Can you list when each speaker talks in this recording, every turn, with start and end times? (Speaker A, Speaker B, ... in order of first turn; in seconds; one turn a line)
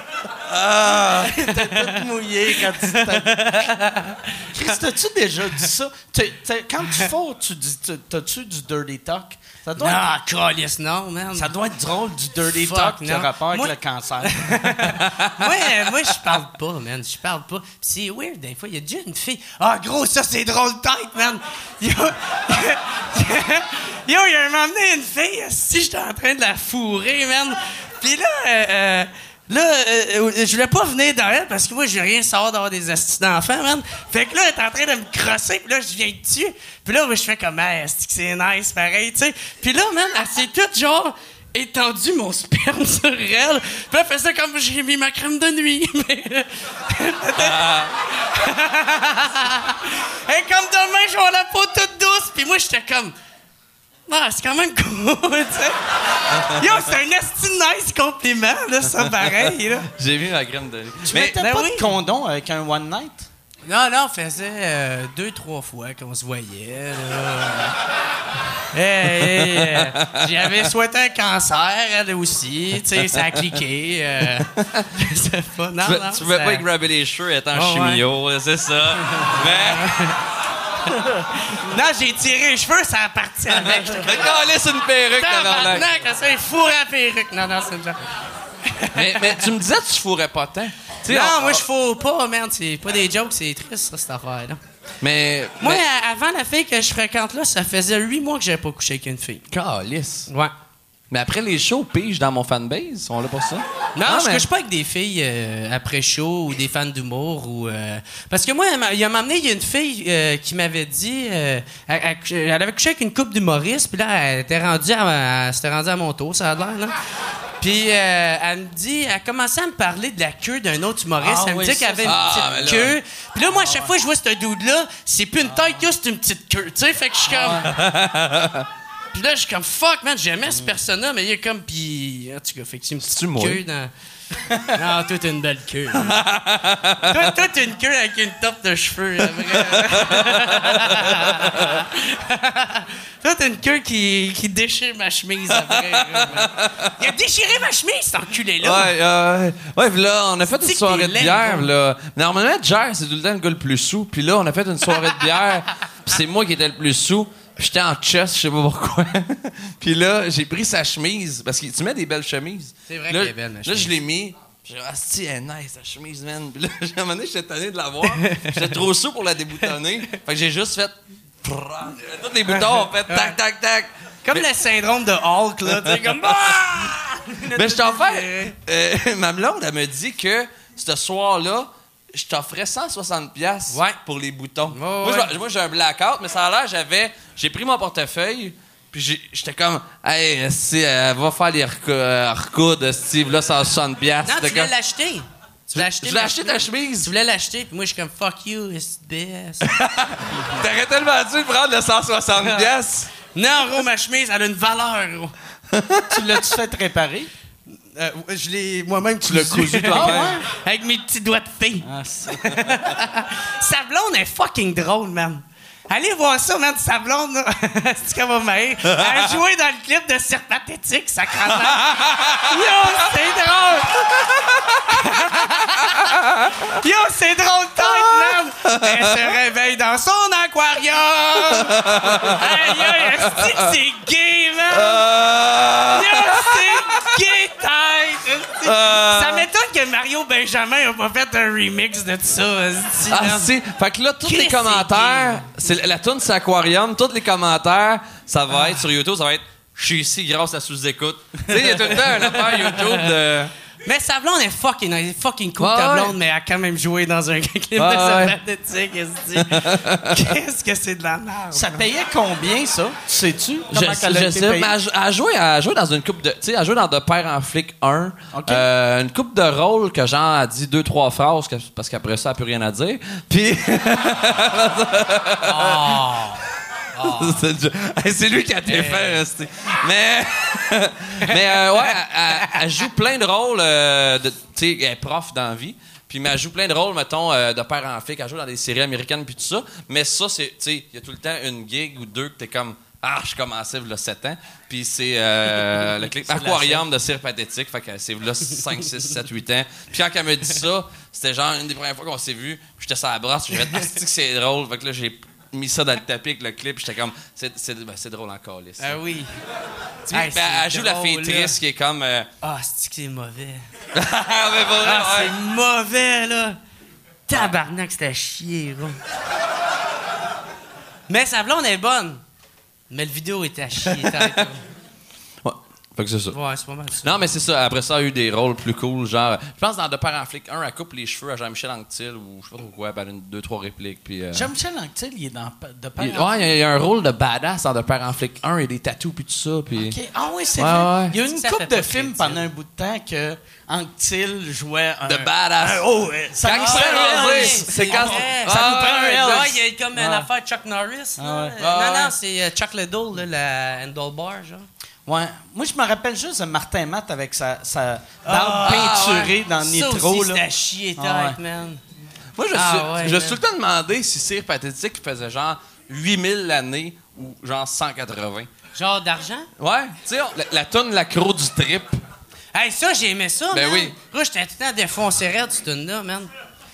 Speaker A: 0.5-1.3
Speaker B: 0.8-3.5
Speaker C: 1.6-1.9
Speaker C: 2.9-4.5
Speaker B: 4.5-10.1
Speaker C: 9.8-11.5
Speaker B: 11.3-14.7
Speaker C: 12.5-13.7
Speaker C: 14.2-53.1
Speaker A: 47.4-47.9
Speaker C: 54.1-55.8
Speaker C: 56.3-59.9
Speaker A: 60.0-61.3
Speaker B: 61.0-63.3
Speaker C: 61.2-61.9
Speaker C: 63.7-67.8
Speaker C: 68.7-76.7
Speaker A: 69.4-70.3
Speaker A: 74.6-74.9
Speaker A: 75.8-80.0
Speaker C: 77.5-78.0
Speaker C: 79.5-80.2
Speaker C: 81.3-84.3
Speaker A: 83.9-85.9
Speaker C: 85.2-88.0
Speaker C: 88.7-89.5
Speaker A: 88.9-91.7
Speaker C: 91.0-94.6
Speaker A: 95.0-95.8
Speaker C: 95.6-99.4
Speaker A: 99.5-100.3
Speaker A: 101.1-104.5
Speaker C: 104.0-117.0
Speaker C: 117.6-127.7
Speaker B: 121.2-122.9
Speaker A: 122.0-123.0
Speaker B: 123.5-123.9
Speaker B: 125.5-125.8
Speaker B: 127.3-127.7
Speaker A: 127.6-128.7
Speaker C: 129.1-133.9
Speaker A: 133.0-133.6
Speaker C: 134.7-136.2
Speaker A: 136.0-137.2
Speaker C: 137.1-148.9
Speaker A: 139.5-141.8
Speaker A: 145.5-146.9
Speaker A: 148.6-174.4
Speaker C: 150.5-151.7
Speaker C: 162.9-163.9
Speaker C: 168.1-168.6
Speaker C: 172.5-173.4
Speaker C: 174.2-178.6
Speaker A: 175.7-194.7
Speaker C: 183.7-184.0
Speaker C: 184.7-185.3
Speaker C: 194.2-199.7
Speaker A: 195.8-197.1
Speaker A: 199.7-203.1
Speaker C: 203.3-205.3
Speaker A: 205.7-206.1
Speaker B: 206.1-207.3
Speaker C: 207.9-224.2
Speaker A: 209.3-210.4
Speaker B: 209.9-210.4
Speaker B: 211.8-212.4
Speaker A: 221.7-222.9
Speaker A: 224.2-225.0
Speaker C: 224.8-235.1
Speaker A: 225.9-226.5
Speaker A: 227.8-229.3
Speaker A: 231.6-233.7
Speaker A: 234.7-237.2
Speaker C: 235.8-243.5
Speaker A: 238.6-239.5
Speaker A: 243.1-253.5
Speaker C: 244.2-245.5
Speaker C: 251.7-253.1
Speaker C: 253.8-261.9
Speaker A: 255.6-256.1
Speaker A: 257.8-258.4
Speaker A: 259.4-260.4
Speaker B: 261.5-264.7
Speaker A: 263.7-276.2
Speaker B: 268.3-268.7
Speaker C: 275.5-276.4
Speaker C: 276.9-277.4
Speaker A: 277.0-308.9
Speaker C: 278.7-279.2
Speaker B: 296.3-296.9
Speaker C: 308.8-309.3
Speaker C: 310.1-311.6
Speaker A: 310.1-312.3
Speaker C: 312.4-313.6
Speaker A: 313.9-315.4
Speaker C: 314.8-316.6
Speaker C: 317.3-319.0
Speaker C: 321.1-322.2
Speaker C: 322.9-324.6
Speaker A: 323.9-324.4
Speaker A: 325.4-326.4
Speaker C: 326.3-327.2
Speaker A: 327.0-334.5
Speaker B: 334.3-336.5
Speaker A: 336.0-340.0
Speaker B: 339.8-349.5
Speaker A: 340.6-341.1
Speaker C: 341.1-342.5
Speaker A: 345.1-345.9
Speaker A: 346.4-350.2
Speaker C: 346.5-354.7
Speaker B: 351.2-351.5
Speaker A: 351.6-352.1
Speaker B: 355.1-360.4
Speaker C: 358.3-359.1
Speaker A: 358.6-359.4
Speaker C: 359.6-361.8
Speaker B: 361.0-361.4
Speaker A: 362.4-368.5
Speaker C: 362.5-363.4
Speaker C: 368.7-369.5
Speaker A: 369.6-372.0
Speaker C: 372.5-376.3
Speaker A: 373.5-373.9